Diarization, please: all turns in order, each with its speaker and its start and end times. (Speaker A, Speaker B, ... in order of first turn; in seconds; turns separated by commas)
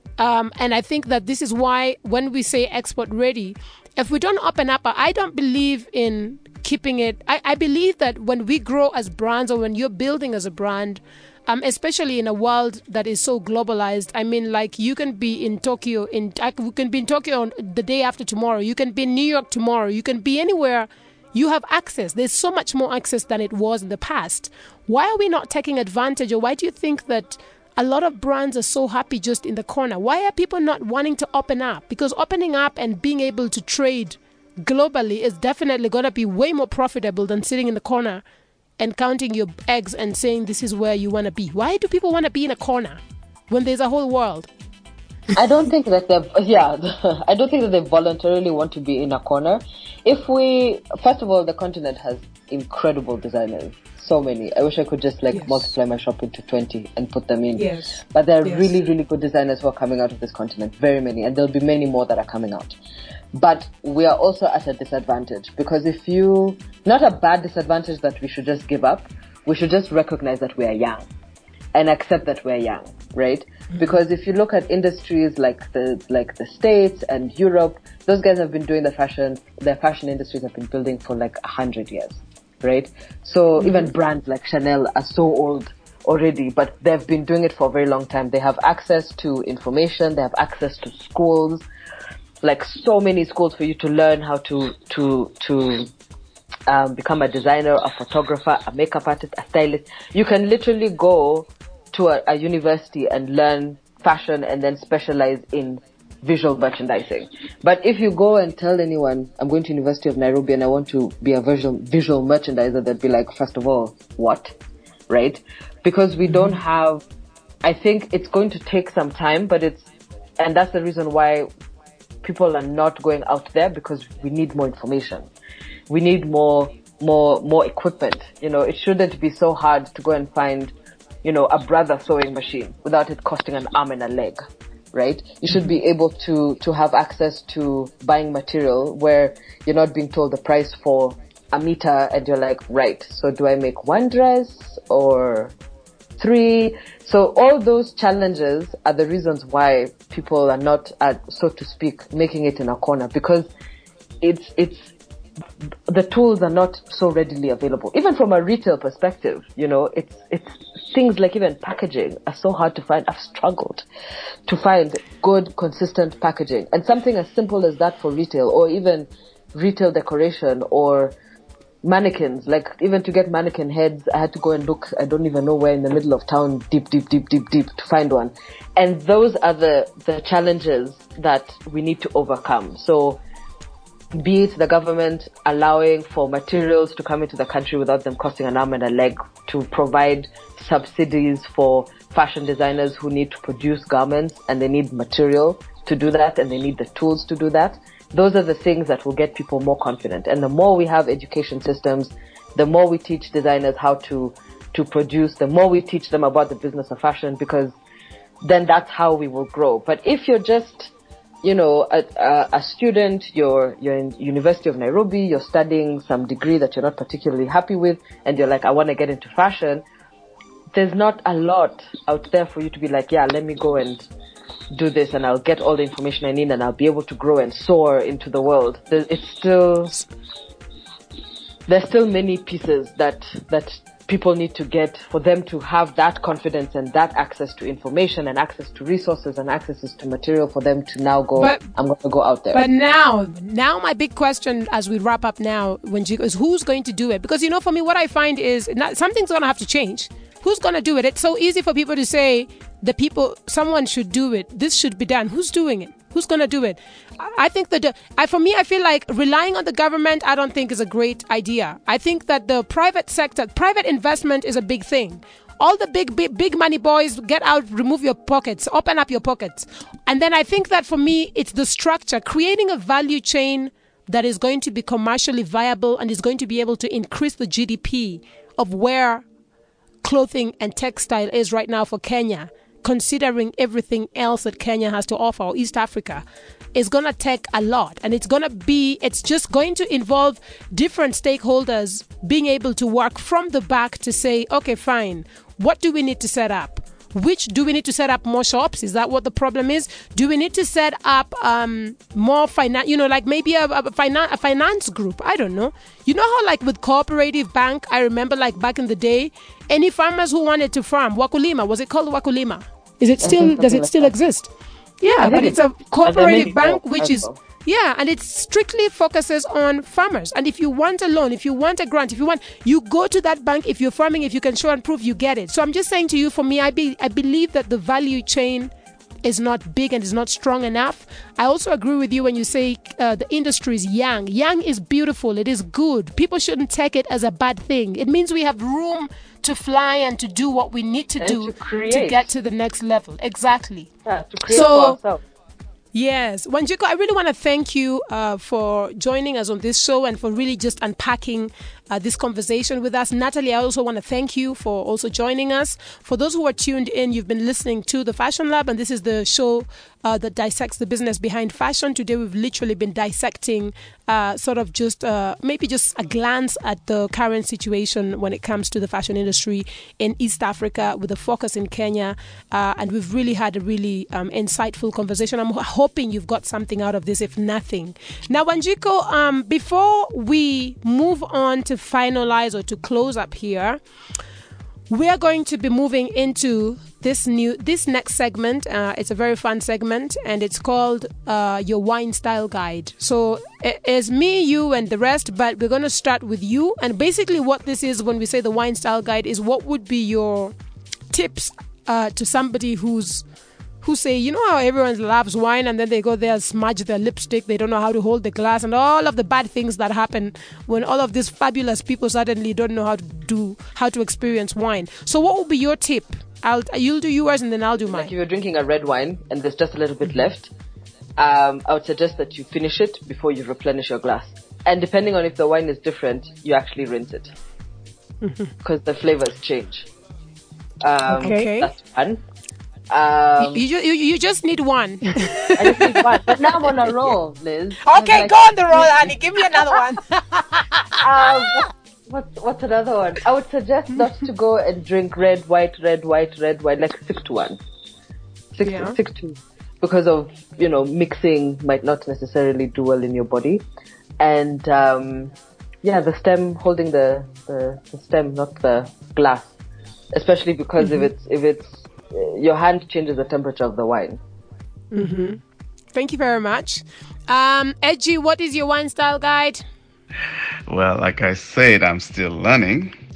Speaker A: 0.2-38.2, Speaker A: 38.8-44.5, Speaker B: 45.4-62.8, Speaker A: 55.3-55.6, Speaker A: 57.6-58.7, Speaker B: 63.3-71.0, Speaker B: 71.7-91.7, Speaker A: 83.6-83.9, Speaker B: 92.4-95.9, Speaker B: 96.7-114.5, Speaker B: 115.1-117.0, Speaker A: 116.3-116.6, Speaker B: 117.6-119.9, Speaker B: 120.4-121.5, Speaker B: 122.2-125.3, Speaker B: 125.9-130.7, Speaker B: 131.2-134.4, Speaker B: 134.9-145.5, Speaker B: 146.2-153.5, Speaker B: 154.2-154.9, Speaker B: 155.9-163.8, Speaker B: 164.5-171.2, Speaker B: 171.8-183.2, Speaker B: 184.1-207.7, Speaker B: 208.4-210.9, Speaker B: 211.4-219.8, Speaker B: 220.7-224.1, Speaker B: 224.7-230.0, Speaker B: 231.7-242.6, Speaker A: 241.4-241.6, Speaker A: 242.5-279.2, Speaker A: 280.0-286.2, Speaker A: 286.8-328.7, Speaker B: 313.2-314.1, Speaker B: 315.2-317.4, Speaker A: 329.2-343.9, Speaker B: 341.2-342.3, Speaker B: 344.1-345.2, Speaker A: 344.5-345.0, Speaker A: 345.9-383.8, Speaker A: 384.9-400.5, Speaker A: 401.1-403.2, Speaker A: 403.8-418.1, Speaker B: 417.9-420.5, Speaker B: 421.2-427.3, Speaker B: 428.6-429.9, Speaker B: 430.8-432.2, Speaker A: 431.2-431.7, Speaker B: 432.9-433.6, Speaker A: 433.4-436.3, Speaker B: 435.6-439.0, Speaker A: 437.8-441.0, Speaker B: 441.0-447.6, Speaker B: 448.6-453.6, Speaker A: 448.6-449.0, Speaker B: 454.2-459.5, Speaker B: 460.1-464.2, Speaker A: 460.8-461.1, Speaker A: 464.9-465.4, Speaker A: 465.9-469.6, Speaker C: 470.7-472.9